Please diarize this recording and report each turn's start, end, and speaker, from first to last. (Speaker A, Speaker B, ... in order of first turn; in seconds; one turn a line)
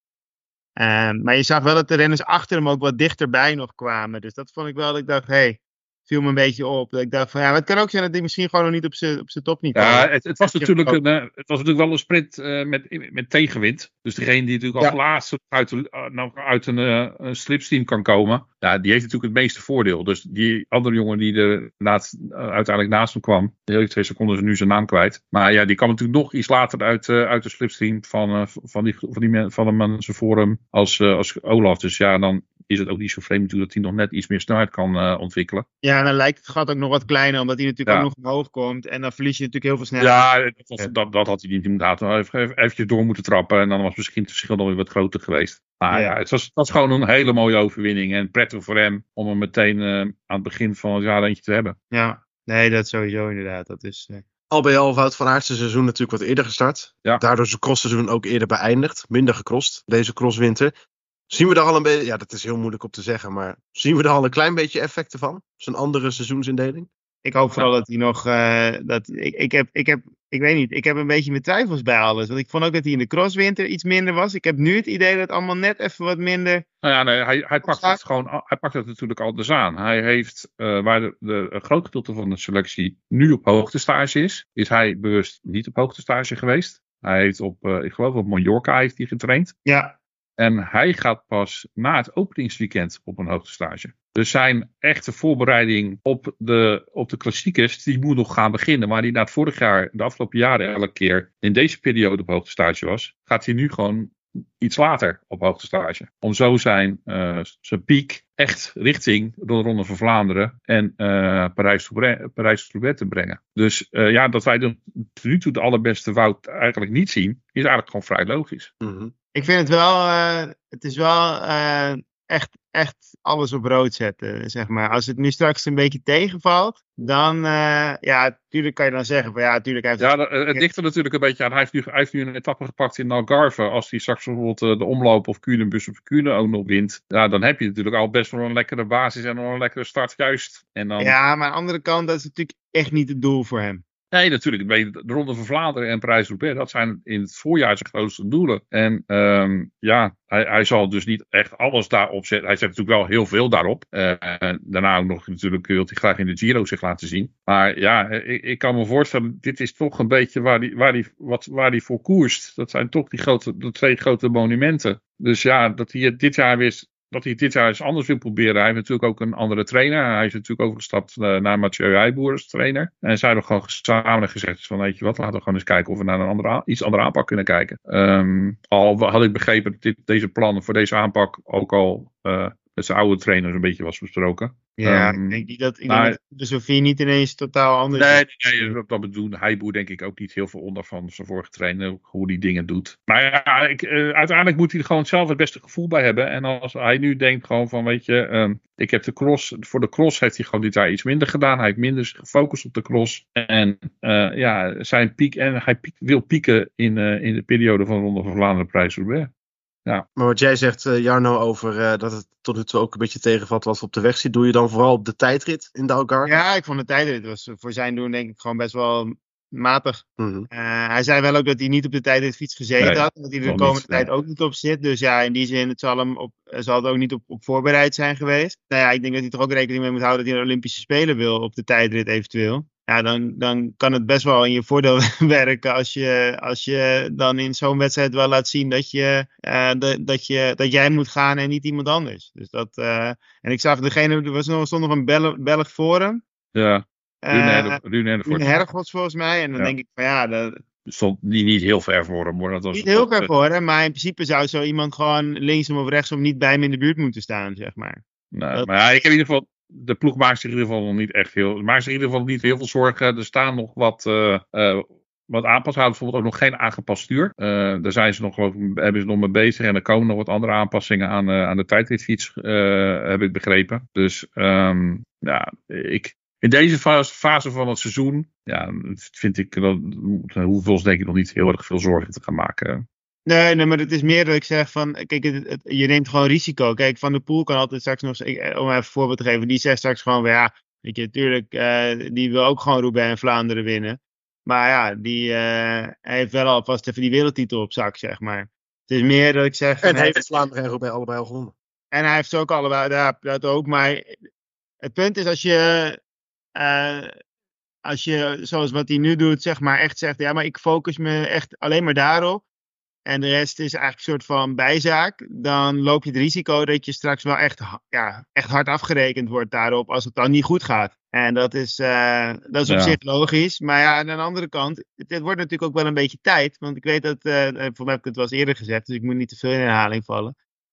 Speaker A: 0.8-11.0
Speaker B: 9.7-35.6
Speaker A: 35.8-40.2
Speaker B: 40.0-51.8
Speaker A: 51.9-54.2
Speaker C: 54.5-60.7
Speaker C: 61.3-66.9
Speaker A: 67.2-76.6
Speaker B: 76.8-89.5
Speaker A: 77.6-78.0
Speaker A: 89.7-90.0
Speaker B: 90.4-118.7
Speaker C: 118.8-119.1
Speaker A: 119.3-130.7
Speaker B: 130.0-141.2
Speaker A: 141.0-143.8
Speaker B: 144.1-186.2
Speaker A: 184.8-188.8
Speaker B: 187.9-209.3
Speaker C: 210.2-216.3
Speaker A: 216.2-246.2
Speaker C: 220.2-220.5
Speaker B: 222.8-224.1
Speaker B: 246.5-248.5
Speaker A: 247.2-250.6
Speaker B: 250.9-253.3
Speaker A: 252.7-258.0
Speaker B: 258.3-282.9
Speaker A: 283.2-300.2
Speaker C: 299.8-301.5
Speaker A: 301.9-304.1
Speaker A: 304.8-306.0
Speaker A: 306.5-307.1
Speaker A: 307.8-312.4
Speaker A: 313.1-330.3
Speaker B: 322.7-323.0